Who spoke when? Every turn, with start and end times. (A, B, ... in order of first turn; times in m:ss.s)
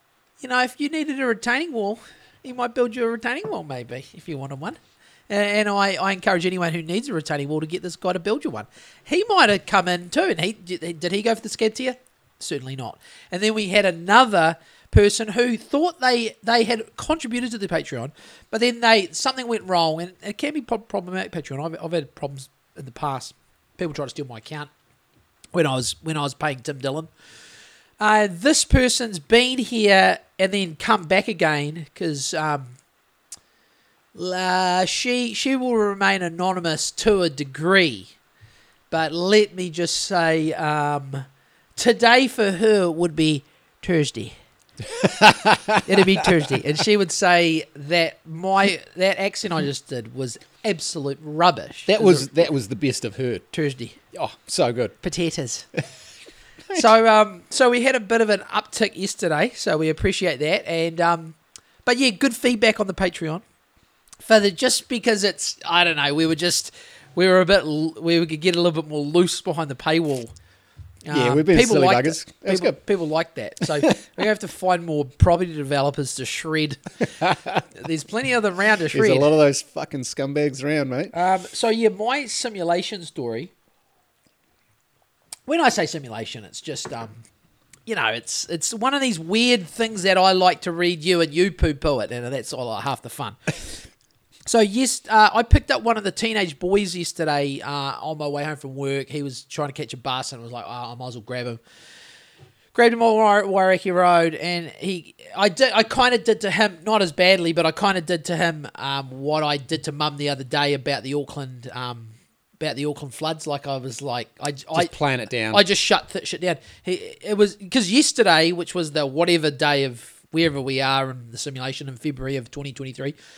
0:00.4-0:24.7 A
0:25.5-0:27.1 A
0:28.0-0:32.8 A
0:34.2-0:38.1 A
0:38.9-0:44.4 A
0:44.8-0:46.4 B
0:45.9-0:52.3 A
0:51.9-0:53.5 B
0:53.5-0:54.0 A
0:54.1-0:55.0 B
0:55.0-0:55.7 A
0:56.7-1:03.4 A
1:04.2-1:10.3 A
1:11.0-1:16.8 A
1:11.1-1:12.8 B
1:17.2-1:17.6 B
1:17.7-1:19.3 A
1:18.9-1:21.1 B
1:21.1-1:23.5 A
1:25.5-1:27.2 A
1:27.9-1:33.9 A
1:34.5-1:41.6 A
1:42.7-2:03.2 A
1:54.7-1:55.6 B